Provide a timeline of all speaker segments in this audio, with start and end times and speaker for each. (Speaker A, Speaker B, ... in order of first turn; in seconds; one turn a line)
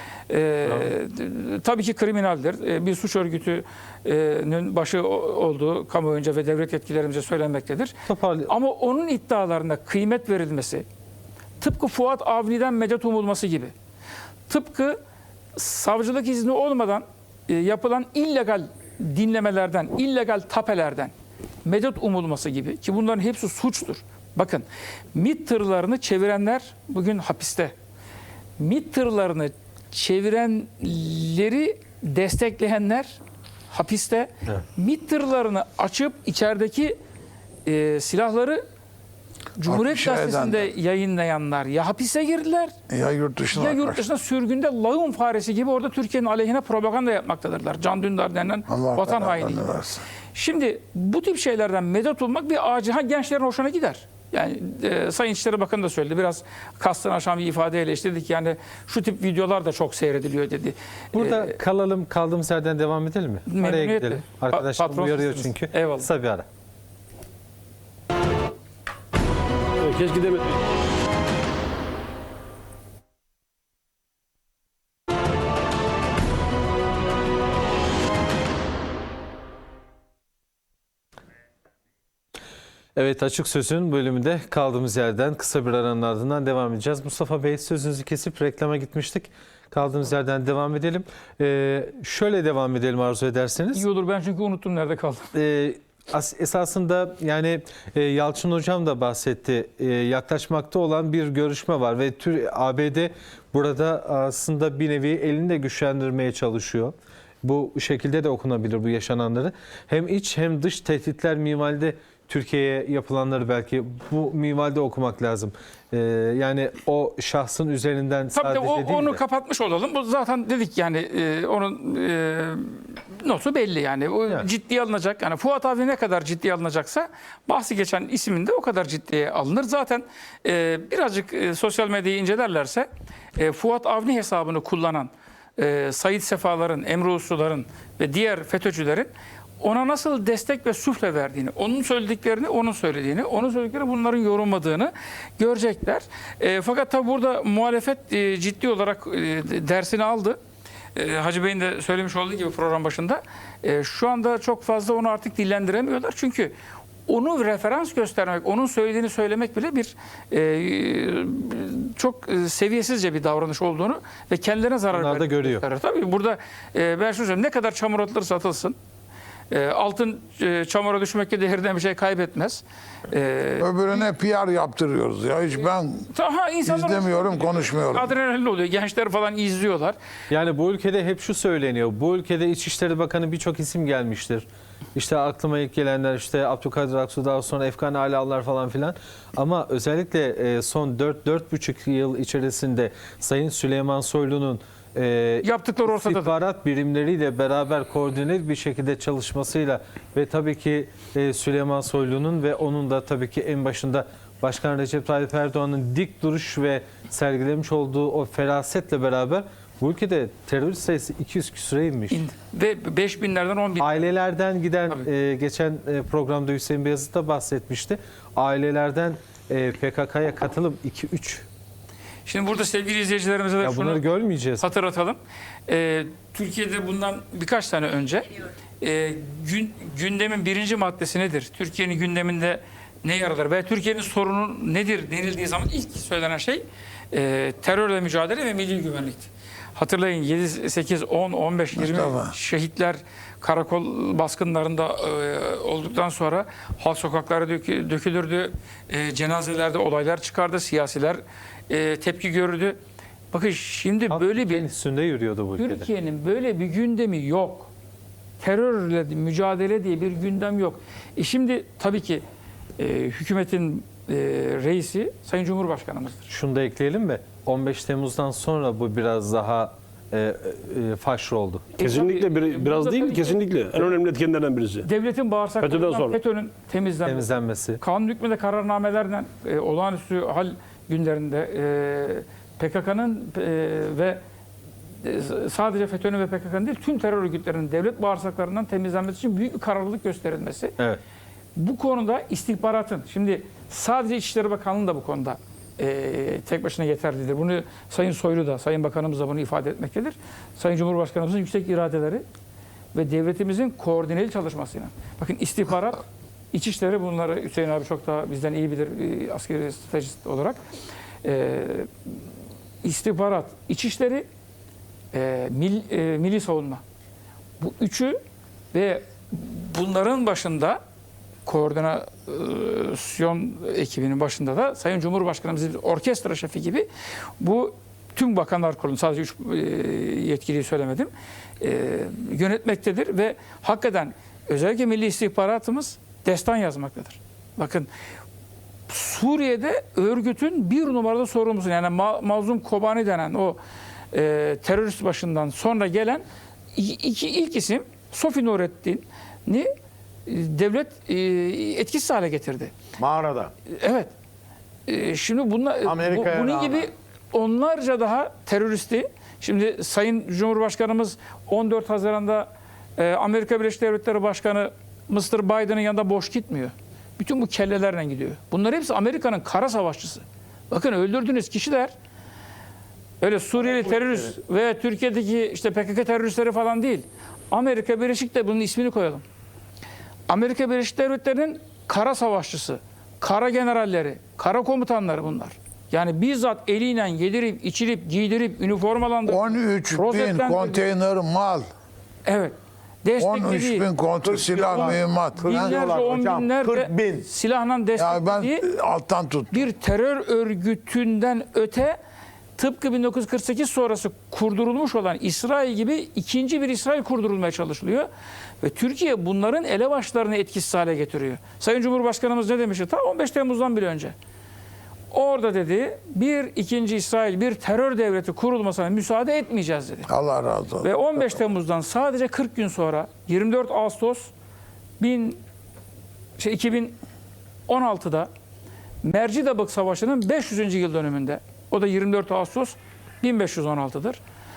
Speaker A: 0.3-8.0
Speaker B: 0.7-0.9
Speaker B: 8.1-8.5
Speaker A: 8.5-10.8
Speaker A: 11.6-13.7
Speaker A: 14.5-15.0
Speaker A: 15.6-21.1
Speaker A: 21.6-27.7
Speaker A: 28.6-33.2
Speaker A: 33.7-37.0
Speaker A: 37.7-38.6
Speaker A: 39.6-42.7
Speaker C: 39.7-40.7
Speaker C: 42.9-44.0
Speaker A: 43.5-49.7
Speaker C: 48.7-50.0
Speaker A: 50.4-61.5
Speaker B: 61.1-66.5
Speaker A: 63.5-66.1
Speaker D: 69.8-70.6
Speaker B: 83.0-93.8
Speaker A: 93.7-95.3
Speaker B: 95.3-119.2
Speaker A: 118.3-150.4
Speaker A: 150.9-156.5
Speaker A: 157.1-168.8
Speaker B: 164.9-165.7
Speaker A: 169.5-173.7
Speaker C: 173.6-176.1
Speaker A: 176.1-179.9
Speaker C: 176.7-178.1
Speaker B: 180.3-212.2
Speaker A: 195.4-196.3
Speaker A: 212.1-214.0
Speaker B: 213.8-221.5
Speaker A: 222.3-224.0
Speaker B: 223.6-224.7
Speaker A: 224.6-228.3
Speaker A: 228.8-252.8
Speaker C: 241.8-242.3
Speaker A: 253.3-254.7
Speaker B: 254.1-255.9
Speaker A: 255.6-257.7
Speaker A: 258.4-262.2
Speaker A: 262.8-266.2
Speaker B: 266.3-271.8
Speaker A: 271.8-273.4
Speaker D: 271.8-274.9
Speaker A: 274.9-277.3
Speaker D: 275.6-276.2
Speaker B: 277.1-277.8
Speaker A: 277.8-284.2
Speaker A: 285.0-290.8
Speaker A: 291.6-302.2
Speaker A: 302.9-310.6
Speaker A: 311.2-312.1
Speaker A: 312.8-314.2
Speaker A: 315.1-316.8
Speaker A: 317.6-318.2
Speaker A: 318.7-320.8
Speaker A: 321.5-326.9
Speaker A: 327.4-337.9
Speaker A: 338.9-343.6
Speaker A: 344.1-346.2
Speaker A: 346.7-349.7
Speaker A: 350.3-352.7
Speaker E: 353.0-353.5
Speaker A: 353.7-354.1
Speaker A: 354.9-371.9
Speaker E: 355.9-356.9
Speaker A: 373.2-379.2
Speaker A: 380.3-390.8
Speaker C: 389.3-391.7
Speaker A: 392.3-393.9
Speaker C: 393.2-395.8
Speaker E: 394.2-397.3
Speaker A: 394.7-398.7
Speaker C: 398.0-399.7
Speaker A: 399.5-402.0
Speaker A: 402.6-408.1
Speaker A: 408.6-414.1
Speaker A: 415.1-420.1
Speaker C: 420.1-420.9
Speaker A: 420.8-424.3
Speaker A: 425.0-425.4
Speaker A: 426.4-427.0
Speaker A: 427.7-428.3
Speaker A: 429.0-434.2